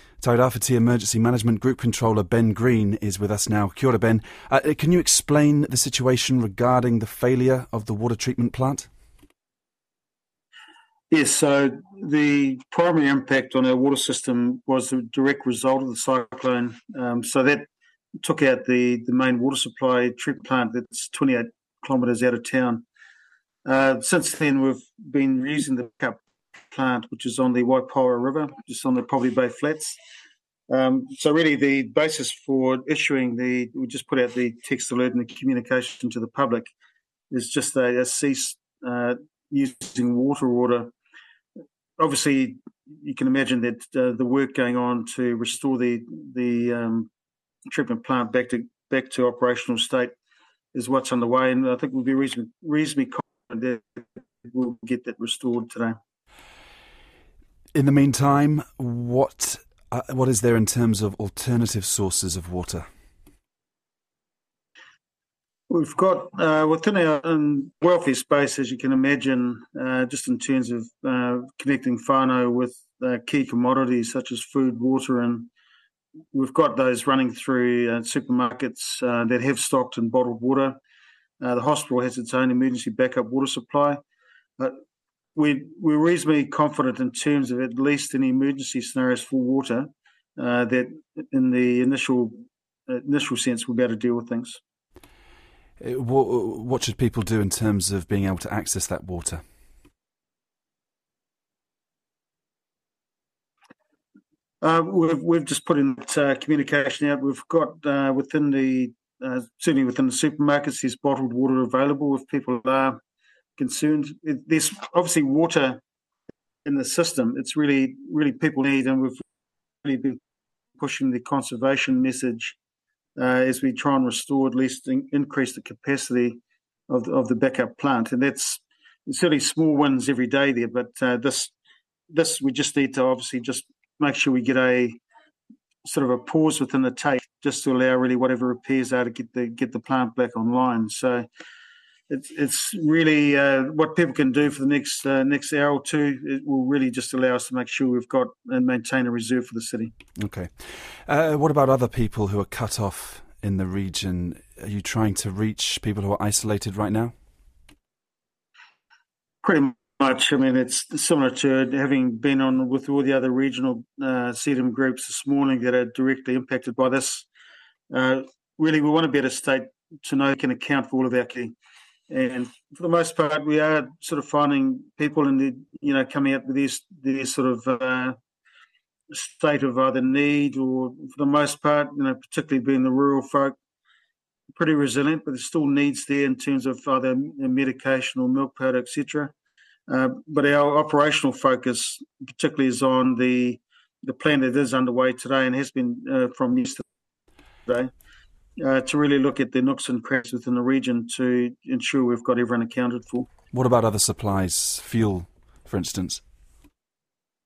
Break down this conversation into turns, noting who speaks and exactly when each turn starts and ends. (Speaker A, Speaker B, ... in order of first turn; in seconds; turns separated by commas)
Speaker A: 0.2-8.9, Speaker B: 11.1-17.7, Speaker B: 18.2-22.9, Speaker B: 23.6-26.2, Speaker B: 26.7-30.0, Speaker B: 30.7-36.7, Speaker B: 37.3-40.9, Speaker B: 42.0-47.1, Speaker B: 47.7-50.1, Speaker B: 50.7-56.0, Speaker A: 57.8-62.9, Speaker B: 65.7-75.5, Speaker B: 76.3-80.8, Speaker B: 81.4-84.0, Speaker B: 85.3-92.4, Speaker B: 92.9-94.6, Speaker A: 95.8-99.4, Speaker B: 104.6-113.0, Speaker B: 113.6-115.8, Speaker B: 116.7-119.2, Speaker B: 119.8-120.2, Speaker B: 120.8-122.6, Speaker B: 123.2-131.5, Speaker B: 132.1-135.0, Speaker B: 135.8-141.3, Speaker B: 142.1-149.9, Speaker A: 150.2-150.5, Speaker A: 151.1-157.1, Speaker B: 159.4-167.3, Speaker B: 167.9-171.5, Speaker B: 172.1-178.2, Speaker B: 179.1-183.6, Speaker B: 184.6-189.3, Speaker B: 189.9-196.8, Speaker B: 198.6-203.3, Speaker A: 203.5-206.2